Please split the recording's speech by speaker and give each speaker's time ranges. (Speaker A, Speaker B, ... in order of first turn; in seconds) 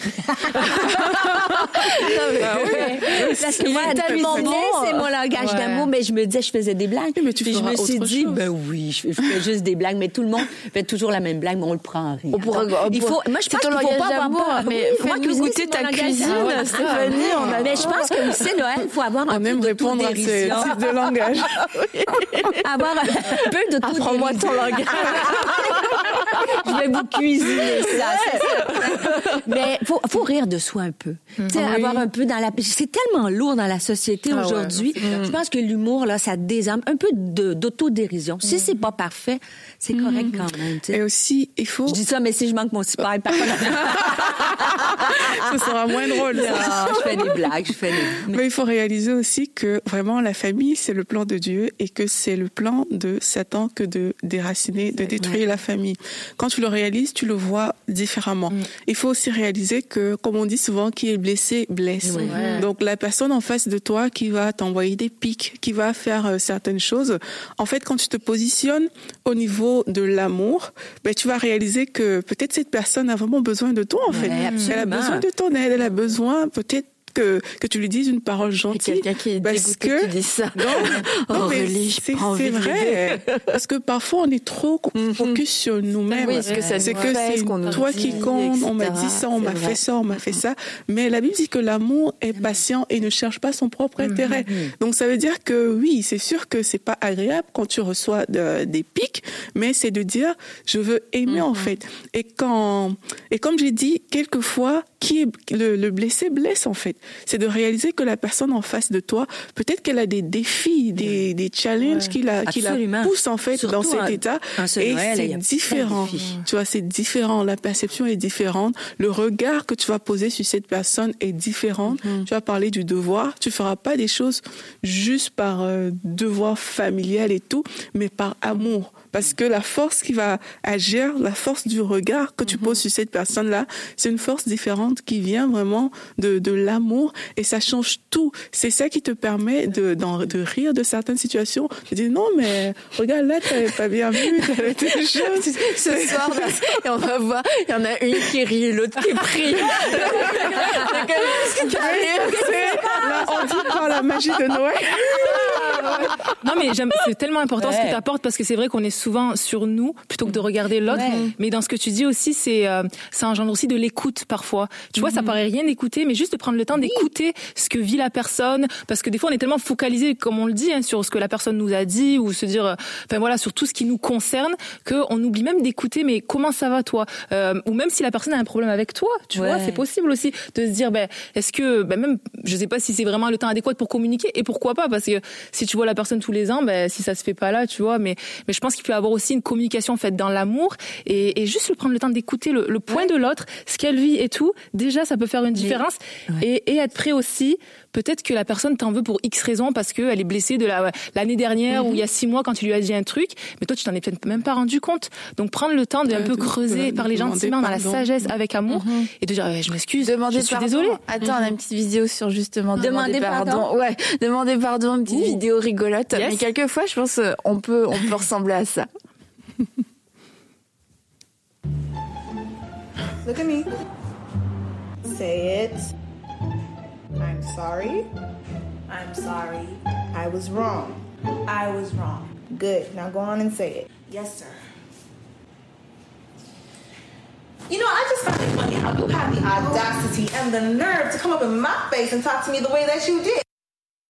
Speaker A: 0.3-20.8, 22.6-41.0, 41.9-48.4, 62.0-62.5, 74.1-75.3, 86.5-86.8, 92.3-92.6, 94.5-94.7, 112.5-116.3, 150.0-153.6, 155.3-156.0, 157.6-158.0, 160.9-161.3, 166.8-167.1, 179.3-179.8, 195.6-196.4, 212.8-213.7
Speaker B: 0.5-5.1, 12.3-18.4, 21.6-22.6, 23.3-29.5, 31.6-32.0, 35.0-35.4, 78.7-83.5, 85.0-85.4, 86.1-90.4, 145.2-153.7, 155.3-156.0, 160.9-161.3, 208.7-209.1, 210.0-218.9
Speaker C: 2.4-4.5, 7.2-8.5, 19.3-21.8, 40.9-42.0, 43.4-47.4, 48.0-146.7, 149.7-150.9, 151.6-155.8, 206.1-208.1
Speaker D: 5.4-5.9, 16.2-17.6, 31.4-31.8, 34.3-35.2, 38.4-38.7, 62.2-62.7, 74.2-74.8, 86.4-87.0, 87.7-88.1, 94.0-94.4, 111.8-112.1, 116.2-116.4, 155.8-211.0, 216.2-216.4
Speaker E: 223.2-223.7, 225.0-225.9, 227.2-228.1, 228.9-234.6, 237.7-243.4